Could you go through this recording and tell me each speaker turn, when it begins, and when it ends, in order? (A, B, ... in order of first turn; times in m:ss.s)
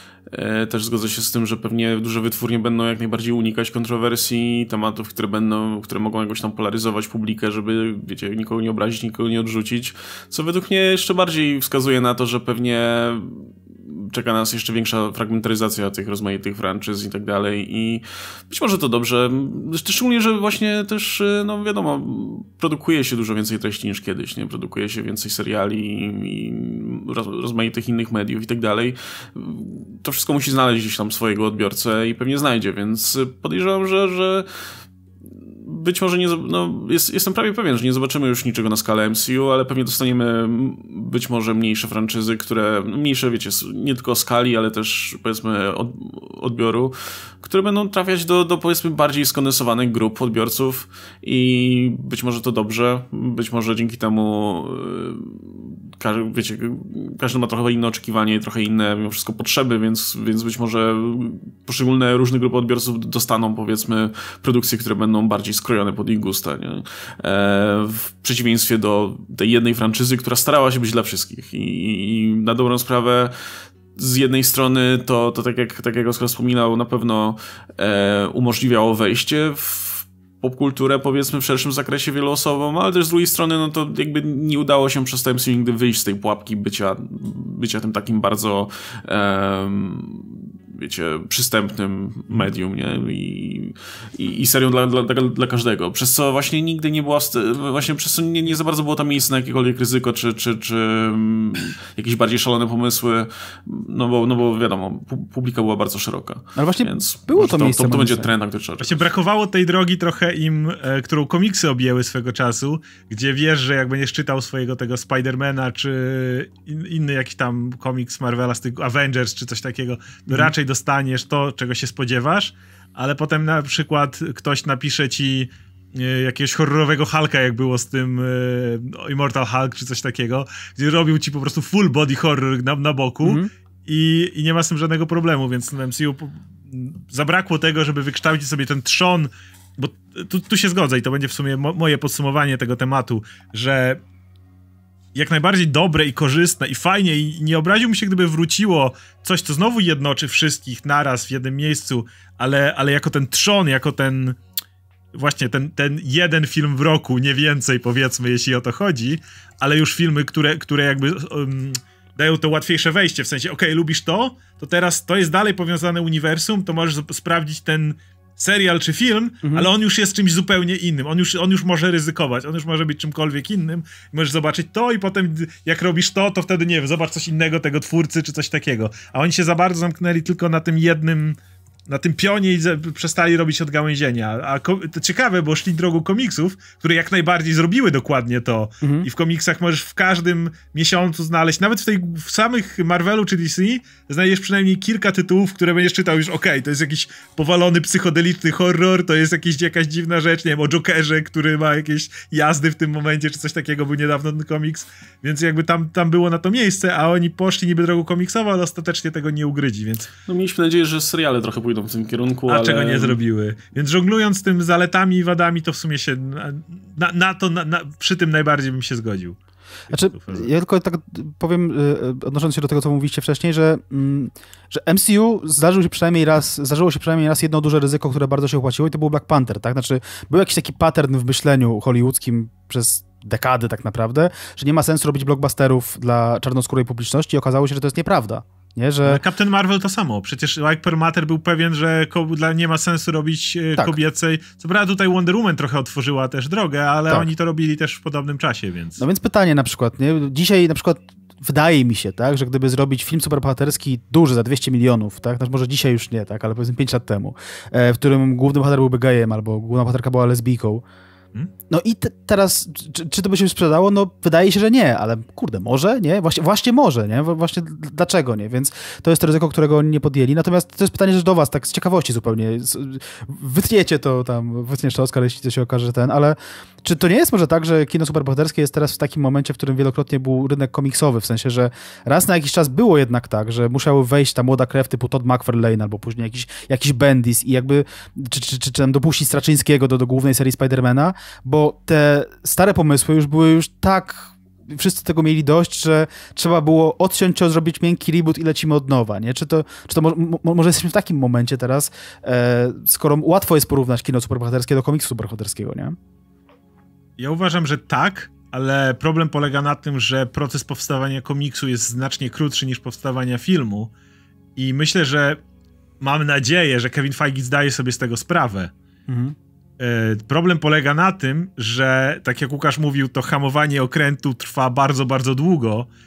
0:00.3-0:34.5 A
0:35.5-1:13.3 A
1:14.0-1:49.0 A
1:46.6-1:48.3 B
1:48.8-2:24.0 C
2:13.2-2:13.5 B
2:25.1-2:34.4 C
2:35.1-3:30.1 C
2:49.4-2:49.7 B
3:08.8-3:09.1 B
3:30.3-3:33.2 A
3:32.5-3:39.4 C
3:39.9-3:40.5 C
3:39.9-3:59.2 B
3:59.0-4:09.0 C
4:09.0-4:20.8 B
4:21.7-5:06.0 B
5:07.2-5:13.9 C
5:14.6-5:15.4 C
5:16.0-5:18.7 C
5:19.1-5:19.3 B
5:19.8-5:25.9 C